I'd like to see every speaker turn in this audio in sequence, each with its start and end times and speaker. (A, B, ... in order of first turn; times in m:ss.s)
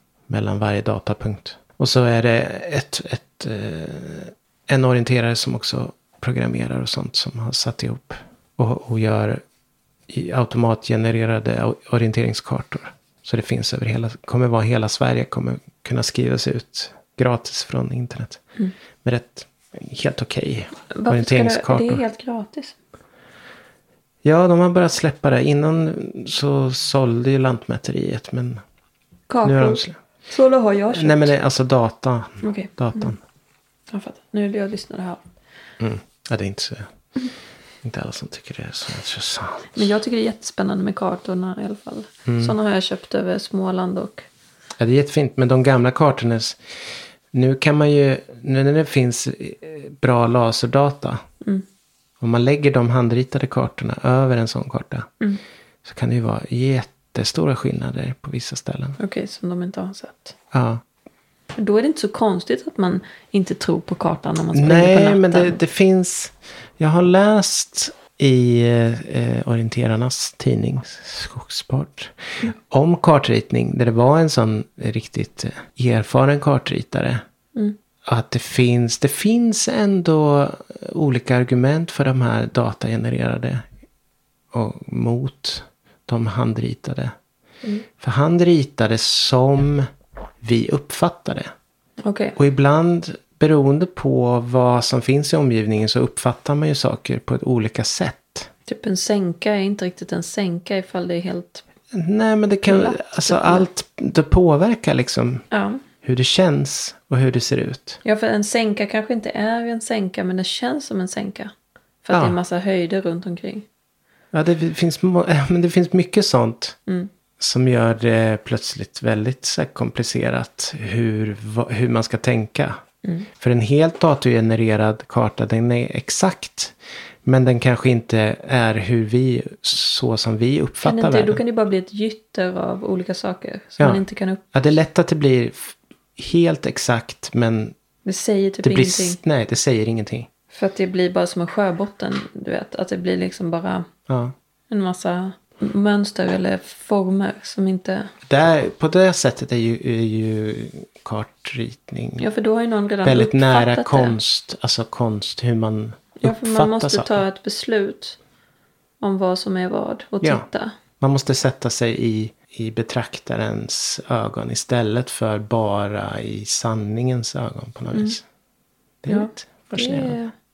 0:00.3-0:09.4 A
0:10.1-0:18.4 A
0:19.0-0:22.0 A
0:20.9-0:22.8 B
0:24.2-0:28.6 A
0:29.3-0:31.3 B
0:29.4-0:30.0 A
0:30.9-0:33.2 A
0:32.4-0:33.1 B
0:33.9-0:35.2 B
0:35.8-0:36.9 A
0:37.8-0:39.9 A
0:39.7-0:44.3 B
0:42.2-0:42.5 A
0:44.8-0:46.6 A
0:47.3-0:51.2 A
0:52.2-0:55.1 A
0:55.8-0:59.0 A
0:59.0-1:00.4 B
1:00.5-1:00.8 A
1:01.6-1:05.6 B
1:04.5-1:17.2 A
1:18.0-1:23.6 A
1:24.5-1:27.1 A
1:28.0-1:29.9 A
1:30.4-1:31.5 A
1:32.0-1:32.4 B
1:32.4-1:38.5 A
1:38.7-1:41.6 B
1:41.9-1:45.5 A
1:42.7-1:43.7 B
1:45.5-1:45.8 B
1:46.0-1:48.0 A
1:48.0-1:51.5 B
1:52.0-1:53.7 B
1:52.1-1:52.4 A
1:54.3-1:56.8 A
1:57.4-2:02.8 A
2:03.0-2:03.3 B
2:03.4-2:11.4 A
2:10.8-2:14.4 B
2:13.8-2:17.7 A
2:18.0-2:19.2 B
2:18.6-2:20.3 A
2:20.5-2:23.9 B
2:24.1-2:24.3 A
2:24.7-2:28.1 B
2:28.3-2:32.2 A
2:32.2-2:34.2 B
2:33.0-2:37.2 A
2:36.2-2:38.2 B
2:39.0-2:40.8 B
2:41.0-2:48.2 A
2:49.0-2:50.2 A
2:49.1-2:50.3 B